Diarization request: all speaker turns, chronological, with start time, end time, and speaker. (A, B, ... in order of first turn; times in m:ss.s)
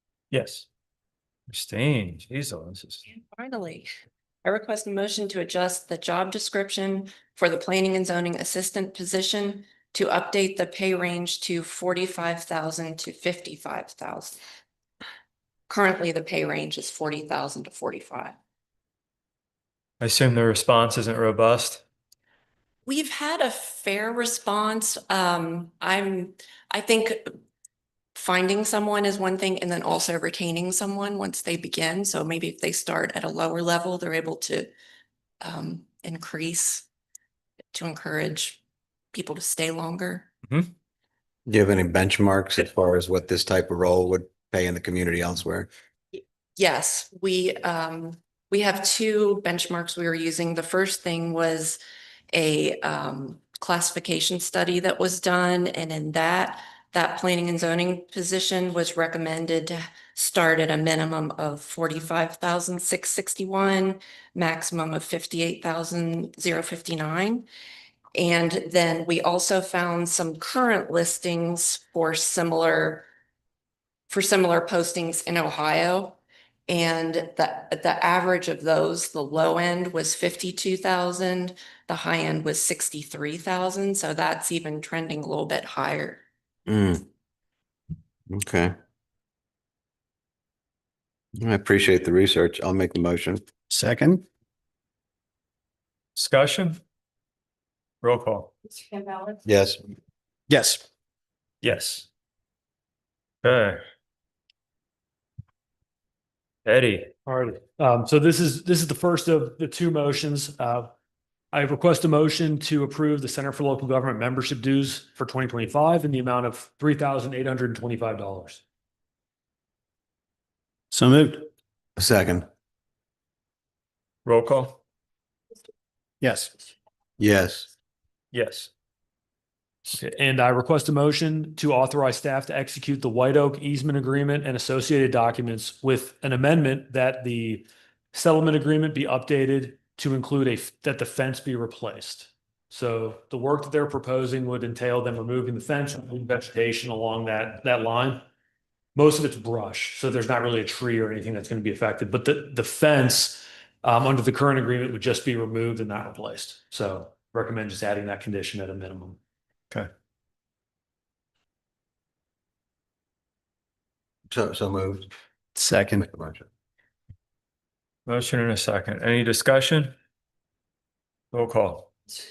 0:00.3-0:00.6 A
0:01.5-0:03.0 A
0:03.3-0:03.9 B
0:04.4-0:14.4 B
0:15.7-0:18.3 B
0:20.0-0:21.8 A
0:22.8-0:27.4 B
0:28.1-0:34.7 B
0:35.4-0:36.8 B
0:37.7-0:38.6 B
0:39.1-0:40.3 B
0:41.5-0:45.7 C
0:46.2-0:51.8 B
0:52.3-1:07.4 B
1:08.1-1:13.0 B
1:14.1-1:16.2 B
1:16.7-1:26.2 B
1:26.7-1:27.0 C
1:28.3-1:28.7 C
1:31.4-1:33.4 C
1:33.7-1:34.2 D
1:36.2-1:36.8 A
1:38.0-1:38.5 A
1:39.4-1:39.8 C
1:40.5-1:40.8 D
1:41.6-1:42.1 A
1:43.4-1:43.8 A
1:46.6-1:47.1 A
1:47.2-1:50.9 E
1:51.5-1:58.6 E
2:00.9-2:01.5 D
2:02.0-2:02.5 C
2:04.2-2:04.8 A
2:06.2-2:06.5 D
2:07.2-2:07.7 C
2:08.3-2:08.7 A
2:09.8-2:28.2 E
2:28.9-2:39.2 E
2:44.3-2:45.1 C
2:45.6-2:46.0 D
2:46.0-2:46.4 C
2:48.0-2:49.9 A
2:51.3-2:51.9 A